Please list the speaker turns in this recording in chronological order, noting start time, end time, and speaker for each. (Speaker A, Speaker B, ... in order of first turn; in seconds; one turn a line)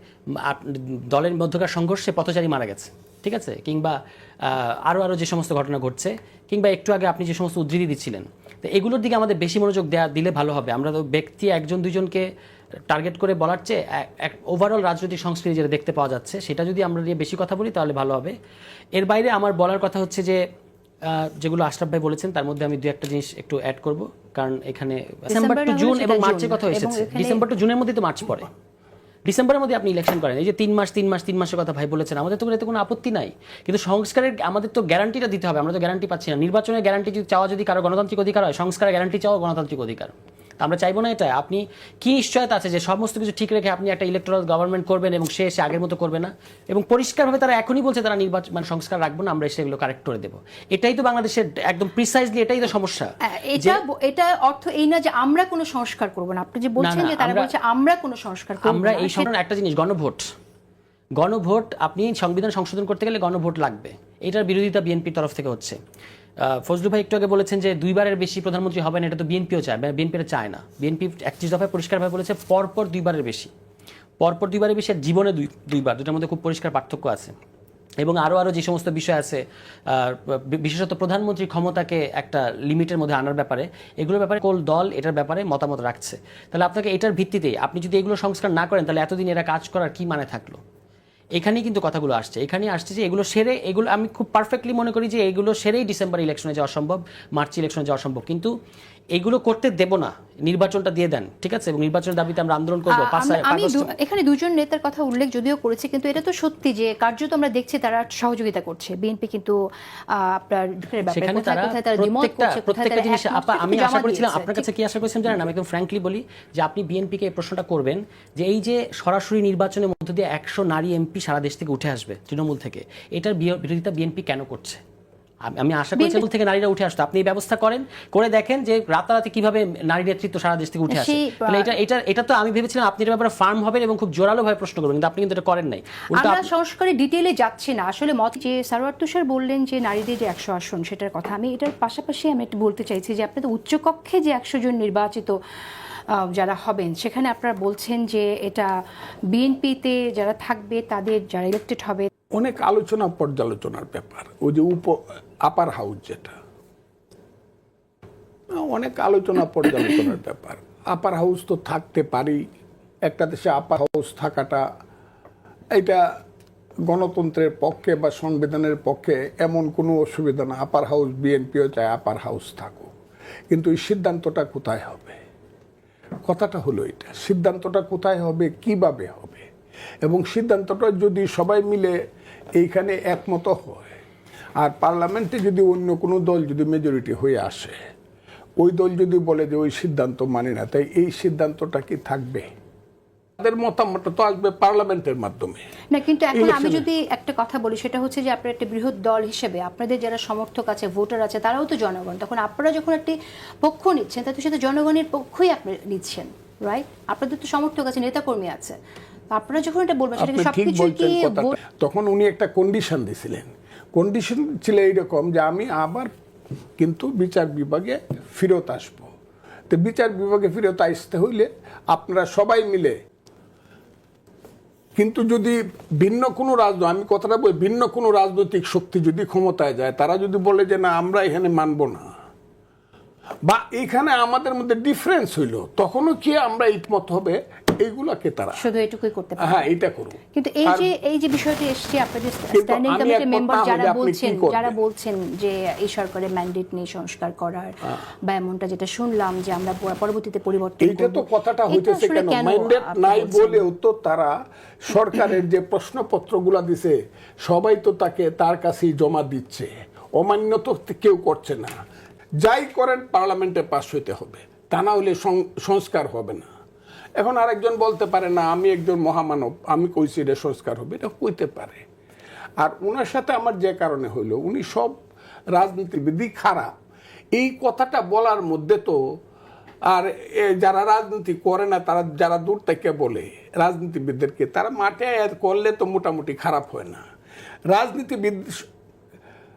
Speaker A: 0.4-12.3
Speaker A: 12.9-18.4
Speaker A: 18.9-20.4
Speaker A: 21.0-28.5
Speaker B: 25.3-27.4
Speaker A: 29.3-53.8
Speaker B: 53.3-59.3
Speaker A: 56.8-57.5
Speaker A: 58.6-60.3
Speaker A: 61.2-65.8
Speaker A: 66.4-73.5
Speaker A: 74.2-77.3
Speaker A: 78.0-90.6
Speaker A: 91.4-98.5
Speaker A: 99.1-103.9
Speaker B: 102.9-109.6
Speaker B: 110.1-114.7
Speaker A: 111.1-124.8
Speaker A: 125.5-136.5
Speaker B: 126.0-126.2
Speaker B: 130.9-131.7
Speaker B: 136.1-145.4
Speaker B: 146.1-148.7
Speaker B: 149.3-152.1
Speaker C: 152.4-156.4
Speaker C: 158.5-162.4
Speaker C: 163.1-164.7
Speaker C: 165.7-166.0
Speaker C: 166.9-172.9
Speaker C: 173.5-175.2
Speaker C: 176.2-179.5
Speaker C: 180.1-181.9
Speaker C: 182.6-184.0
Speaker C: 184.6-187.8
Speaker C: 188.6-192.5
Speaker C: 193.4-195.6
Speaker B: 195.9-208.8
Speaker C: 196.3-196.8
Speaker B: 209.3-211.5
Speaker C: 210.2-216.1
Speaker C: 216.8-219.1
Speaker C: 219.7-223.0
Speaker C: 225.0-232.1
Speaker C: 233.4-238.6
Speaker B: 238.6-239.6
Speaker C: 239.4-240.9
Speaker B: 240.3-253.6
Speaker C: 242.5-244.7
Speaker C: 250.8-261.7
Speaker C: 262.4-266.5
Speaker C: 267.2-271.8
Speaker C: 272.6-275.0
Speaker C: 275.5-276.7
Speaker C: 277.4-279.0
Speaker C: 279.9-287.1
Speaker C: 287.7-288.6